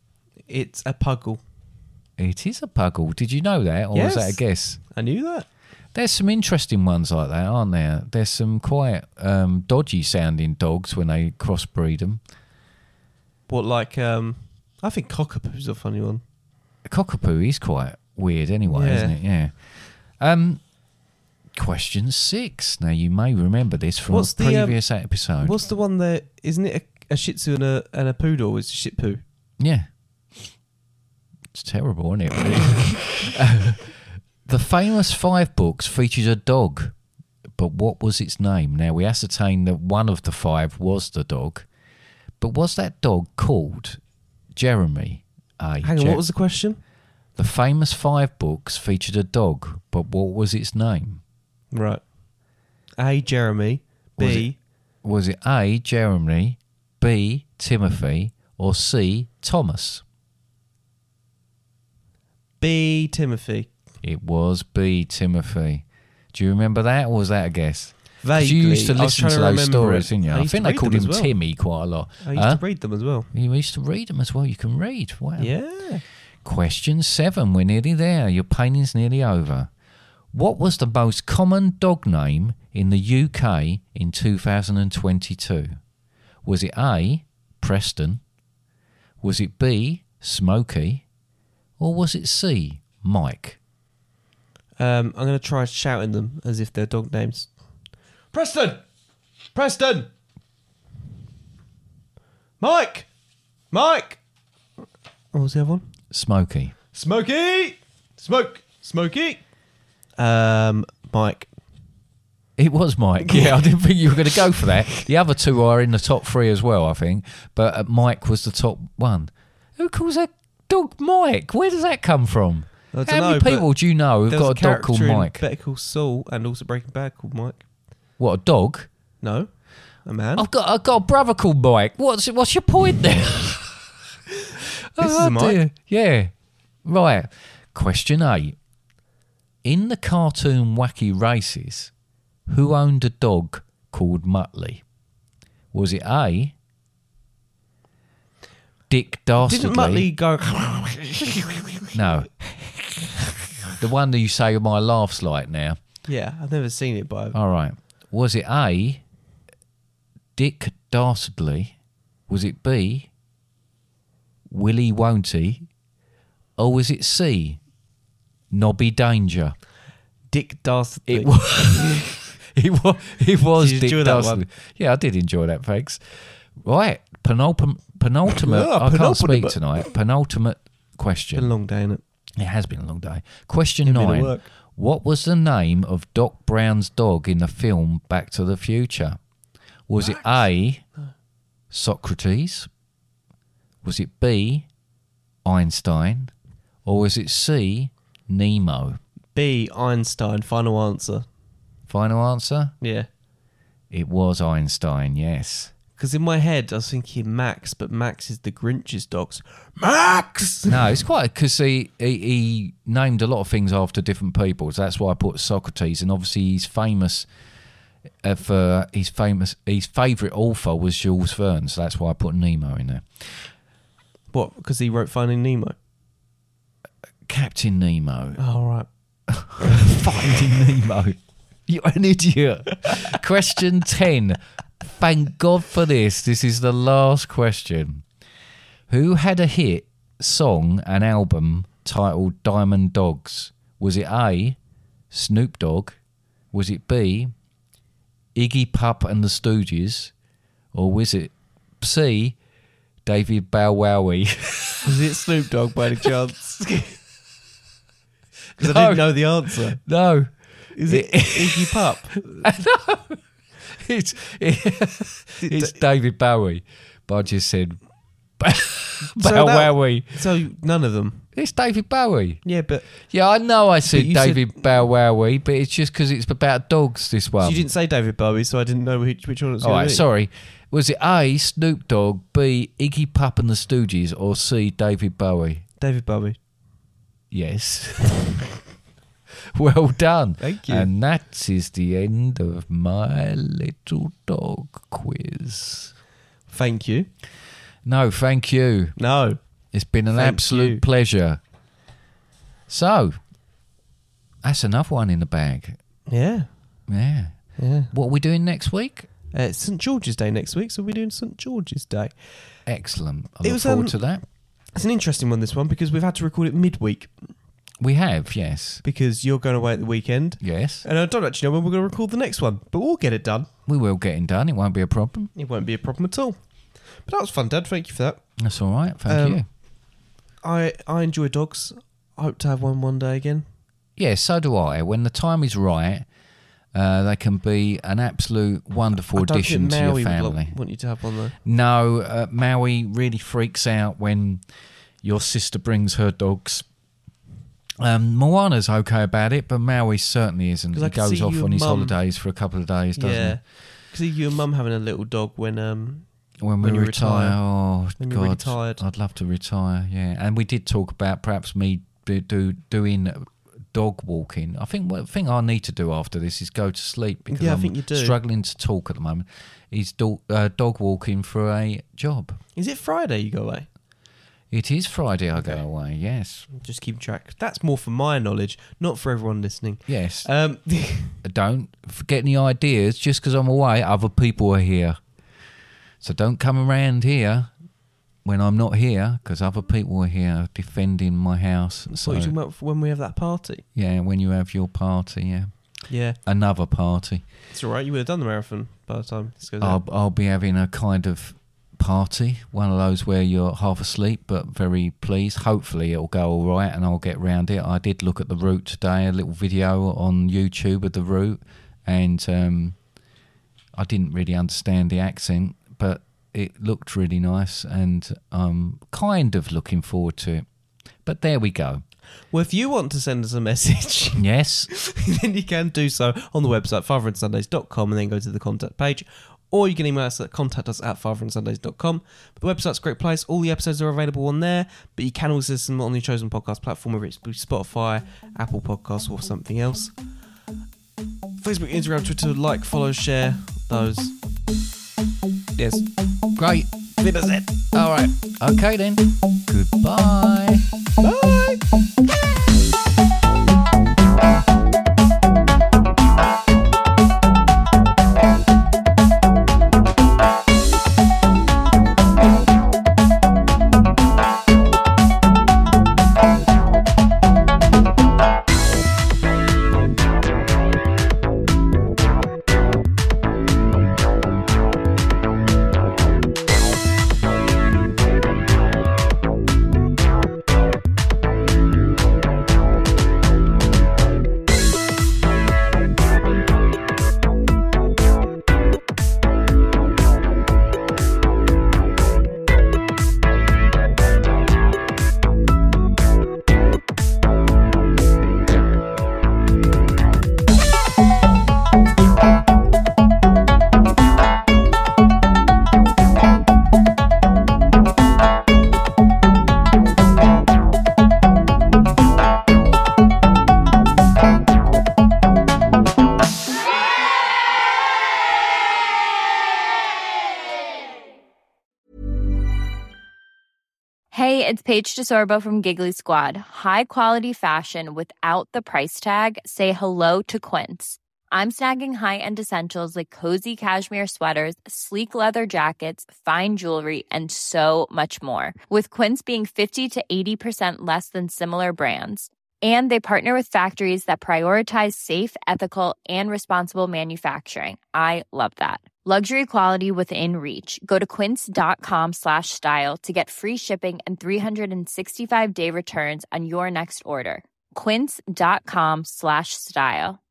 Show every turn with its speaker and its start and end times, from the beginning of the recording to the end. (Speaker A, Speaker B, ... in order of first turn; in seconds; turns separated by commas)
Speaker A: 0.5-1.4, Speaker B: 2.2-4.8, Speaker A: 3.9-4.4, Speaker A: 4.9-5.5, Speaker B: 5.9-12.2, Speaker A: 13.5-16.2, Speaker B: 16.8-20.6, Speaker A: 18.6-19.1, Speaker B: 21.5-25.5, Speaker A: 24.1-29.2, Speaker B: 29.6-30.5, Speaker B: 31.5-33.9, Speaker B: 34.4-37.0, Speaker B: 37.6-41.7, Speaker B: 42.4-44.0, Speaker B: 44.5-46.2, Speaker A: 45.8-46.8, Speaker B: 47.4-51.2, Speaker A: 51.7-52.0, Speaker A: 53.0-54.5, Speaker B: 54.2-54.5, Speaker B: 55.0-60.0, Speaker A: 62.6-63.7, Speaker B: 64.0-72.6, Speaker A: 68.2-71.3, Speaker A: 72.2-73.3, Speaker B: 73.3-75.5, Speaker A: 75.4-76.0, Speaker B: 76.4-79.7, Speaker B: 80.3-85.8, Speaker B: 86.4-88.2, Speaker B: 89.2-91.0, Speaker B: 91.8-93.6, Speaker A: 94.8-97.5, Speaker A: 98.3-98.8, Speaker A: 99.5-100.1, Speaker A: 102.6-103.1, Speaker A: 103.7-104.2, Speaker A: 105.3-105.9, Speaker B: 106.1-106.7, Speaker A: 106.9-109.4, Speaker A: 110.2-111.5, Speaker B: 112.6-125.4, Speaker A: 113.3-113.7, Speaker A: 114.3-115.0, Speaker A: 122.9-123.7, Speaker A: 124.2-127.6, Speaker B: 128.2-128.9, Speaker A: 129.2-129.5, Speaker A: 130.1-130.5, Speaker B: 130.3-133.9, Speaker B: 134.9-136.3, Speaker A: 135.0-135.6, Speaker B: 136.8-138.6, Speaker B: 139.6-141.9, Speaker B: 142.5-144.8, Speaker B: 145.7-146.5, Speaker B: 148.9-150.1, Speaker A: 149.4-151.9, Speaker B: 151.9-152.3, Speaker B: 153.8-155.8, Speaker A: 156.1-157.4, Speaker B: 157.3-159.0, Speaker B: 160.3-161.7, Speaker B: 162.3-163.1, Speaker B: 164.5-165.7, Speaker B: 166.6-167.6, Speaker B: 168.5-169.6, Speaker A: 170.3-172.1, Speaker B: 171.1-181.5, Speaker A: 173.6-174.4, Speaker A: 178.4-179.6, Speaker A: 181.3-182.0, Speaker B: 182.4-189.2, Speaker A: 183.8-184.5, Speaker B: 189.9-190.8, Speaker B: 191.7-192.7, Speaker B: 193.8-194.7, Speaker B: 195.4-196.3, Speaker B: 196.8-199.0, Speaker A: 199.3-201.2, Speaker B: 201.9-202.7, Speaker A: 202.8-203.1, Speaker B: 203.9-205.7, Speaker A: 206.0-211.0, Speaker B: 210.7-217.3, Speaker B: 218.2-223.5, Speaker A: 224.3-225.7, Speaker B: 227.2-228.4, Speaker A: 228.4-228.9, Speaker B: 229.3-238.0, Speaker B: 238.9-244.6, Speaker B: 245.1-246.0, Speaker B: 246.5-247.3, Speaker B: 248.3-250.1, Speaker B: 250.7-252.3, Speaker B: 253.0-254.9, Speaker A: 254.8-257.0, Speaker B: 258.6-260.3, Speaker A: 258.6-259.8, Speaker A: 260.7-262.4, Speaker B: 260.9-261.8, Speaker B: 262.4-267.8, Speaker A: 265.4-265.8, Speaker B: 268.4-270.2, Speaker A: 269.2-271.2, Speaker B: 271.3-272.4, Speaker A: 272.4-272.9, Speaker B: 273.1-277.7, Speaker A: 273.9-274.5, Speaker A: 277.4-280.0, Speaker B: 279.6-285.6, Speaker A: 285.8-286.4, Speaker B: 287.3-288.4, Speaker B: 289.5-295.9, Speaker A: 290.4-290.9, Speaker A: 296.5-297.1, Speaker B: 297.8-299.0, Speaker A: 299.0-299.4, Speaker B: 299.7-301.4, Speaker A: 300.1-300.8, Speaker B: 302.7-303.2, Speaker B: 304.4-305.8, Speaker A: 306.1-306.5, Speaker B: 306.9-307.3, Speaker A: 307.6-307.9, Speaker B: 307.9-309.1, Speaker A: 309.3-312.1, Speaker B: 312.7-314.2, Speaker A: 313.4-313.9, Speaker A: 314.7-317.2, Speaker B: 317.8-318.8, Speaker A: 318.8-323.5, Speaker B: 320.4-320.8, Speaker B: 323.7-325.3, Speaker A: 325.4-326.4, Speaker A: 327.1-328.2, Speaker B: 328.4-329.4, Speaker A: 329.1-329.4, Speaker A: 330.4-333.4, Speaker B: 334.0-336.1, Speaker B: 336.7-340.6, Speaker A: 339.1-341.4, Speaker B: 341.4-344.4, Speaker B: 345.0-346.6, Speaker B: 347.8-353.4, Speaker A: 350.7-352.0, Speaker A: 352.9-356.1, Speaker B: 356.4-372.4, Speaker A: 356.6-357.4, Speaker A: 357.9-358.8, Speaker A: 367.3-368.2, Speaker A: 372.6-373.7, Speaker B: 374.5-376.5, Speaker A: 376.5-381.2, Speaker B: 379.9-380.3, Speaker B: 381.2-385.0, Speaker B: 386.0-387.5, Speaker B: 388.2-392.3, Speaker A: 391.9-393.6, Speaker B: 393.7-395.5, Speaker A: 395.9-396.2, Speaker B: 396.2-397.2, Speaker A: 397.5-399.8, Speaker B: 399.6-412.8, Speaker B: 413.7-420.4, Speaker B: 421.0-421.8, Speaker A: 422.3-439.9, Speaker B: 424.1-424.7, Speaker A: 441.4-444.1, Speaker A: 445.6-445.8, Speaker B: 446.4-450.7, Speaker A: 451.0-451.6, Speaker C: 524.1-560.2